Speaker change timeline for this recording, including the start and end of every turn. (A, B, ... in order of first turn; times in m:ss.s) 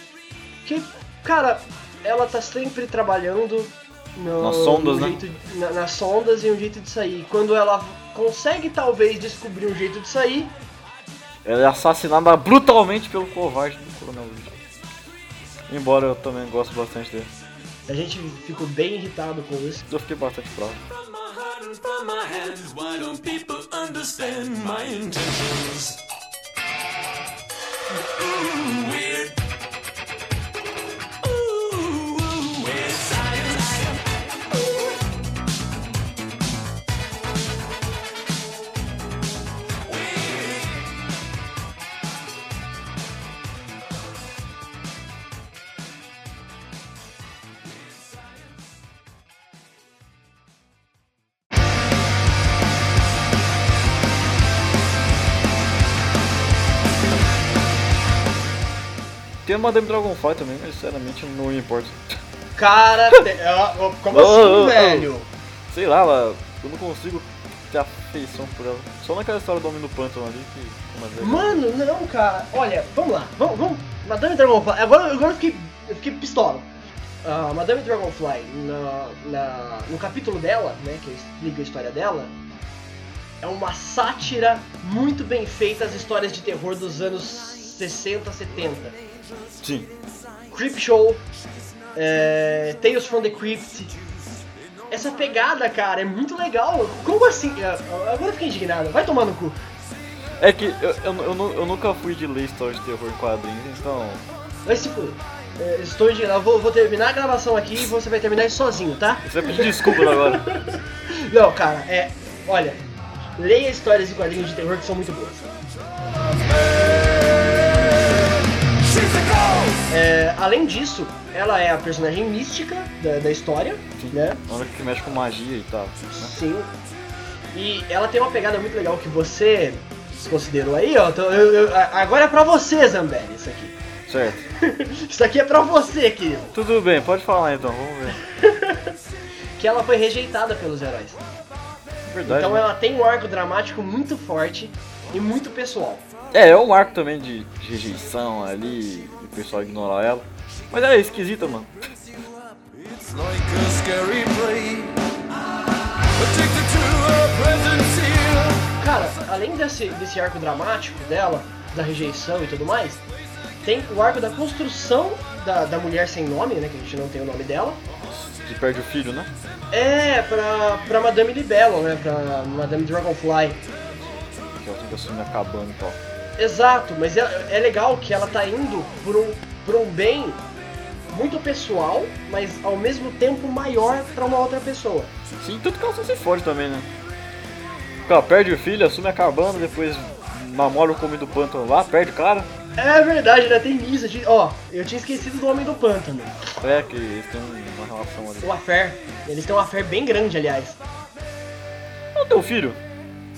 0:00.6-0:10.5 A
0:04.4-0:05.2 B
0:11.4-0:14.6 B
0:15.7-0:17.3 B
0:17.9-0:19.8 A
0:19.9-0:20.8 B
0:20.9-0:26.0 C
0:28.1-0:29.3 C
0:31.2-0:34.0 C
0:39.9-0:40.6 C
0:59.4-1:02.2 B
1:02.5-1:05.3 A
1:04.1-1:05.1 B
1:05.7-1:11.6 B
1:11.2-1:16.7 A
1:17.2-1:22.3 A
1:23.4-1:29.0 A
1:29.6-1:29.9 B
1:30.5-1:31.2 A
1:31.9-1:34.0 A
1:34.9-1:39.6 A
1:40.4-1:44.2 B
1:44.6-1:52.8 A
1:49.2-1:50.5 B
1:53.4-1:55.5 A
1:58.8-1:59.8 C
1:59.9-2:04.4 A
2:04.0-2:06.3 B
2:06.1-2:06.7 A
2:07.5-2:13.8 A
2:14.1-2:14.4 B
2:14.5-2:16.5 A
2:16.5-2:18.2 B
2:18.3-2:19.0 A
2:19.6-2:21.2 A
2:22.1-2:22.7 B
2:22.2-2:26.1 A
2:26.3-2:31.9 B
2:32.8-2:35.0 C
2:36.1-2:38.7 C
2:38.8-2:43.0 A
2:43.6-2:47.8 A
2:48.1-2:49.3 B
2:49.7-2:53.6 A
2:53.9-2:56.0 B
2:56.4-3:00.4 A
3:01.1-3:05.1 A
3:05.4-3:06.9 B
3:08.0-3:12.5 B
3:12.8-3:16.4 A
3:16.6-3:18.5 B
3:18.4-3:20.8 A
3:22.1-3:22.8 B